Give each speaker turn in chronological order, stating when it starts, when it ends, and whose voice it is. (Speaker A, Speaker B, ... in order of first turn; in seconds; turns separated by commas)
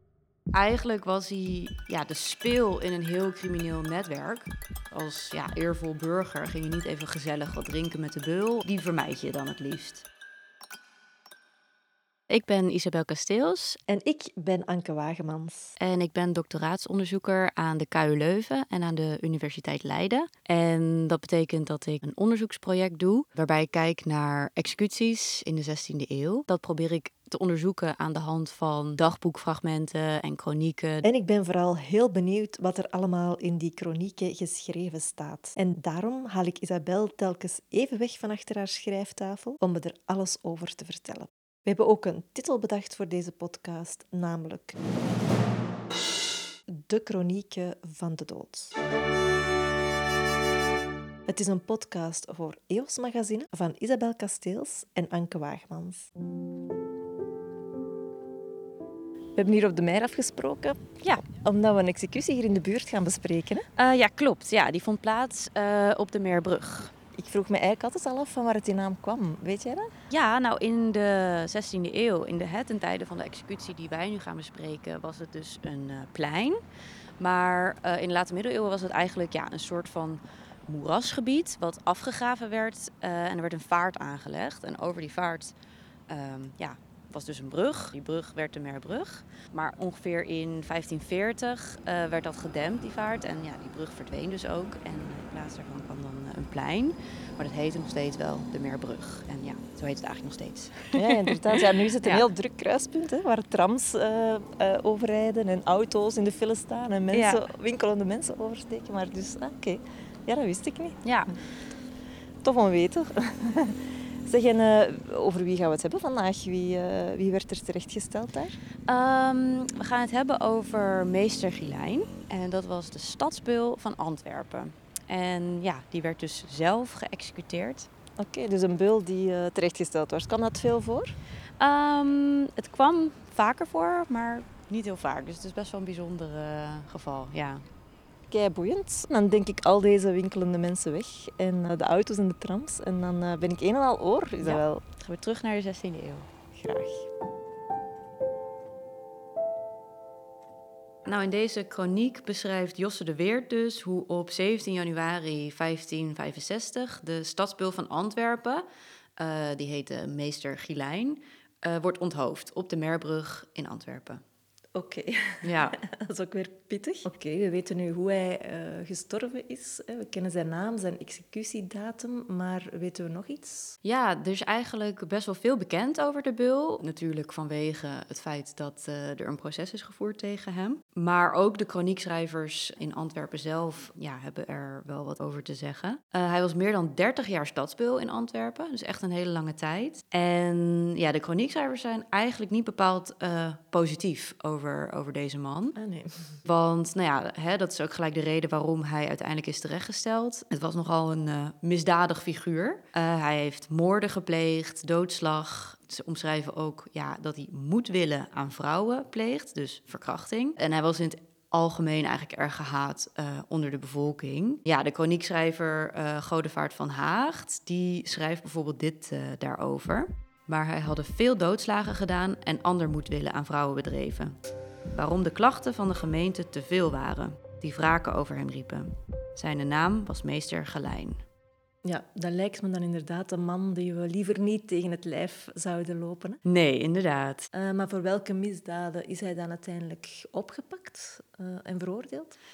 Speaker A: 0.5-10.1, Speaker A: 12.3-13.8, Speaker B: 13.9-15.8, Speaker A: 15.8-31.1, Speaker B: 31.0-44.8, Speaker B: 46.7-48.8, Speaker B: 51.3-56.1, Speaker B: 59.3-63.7, Speaker A: 63.8-66.9, Speaker B: 67.2-69.9, Speaker A: 70.1-76.6, Speaker A: 77.2-85.5, Speaker A: 86.1-102.2, Speaker B: 100.9-111.0, Speaker A: 107.1-107.4, Speaker A: 111.0-111.3, Speaker B: 112.4-118.6, Speaker A: 118.9-127.9, Speaker B: 128.2-131.2, Speaker A: 131.6-137.6, Speaker B: 138.3-144.8, Speaker A: 144.4-146.3, Speaker B: 146.5-147.1, Speaker A: 151.1-158.6, Speaker A: 159.2-164.2, Speaker B: 164.7-173.8, Speaker A: 165.4-165.8, Speaker A: 173.8-195.8, Speaker B: 195.8-196.4, Speaker A: 196.4-224.3, Speaker A: 224.9-231.2, Speaker B: 231.8-236.4, Speaker A: 236.4-237.5, Speaker B: 237.5-242.3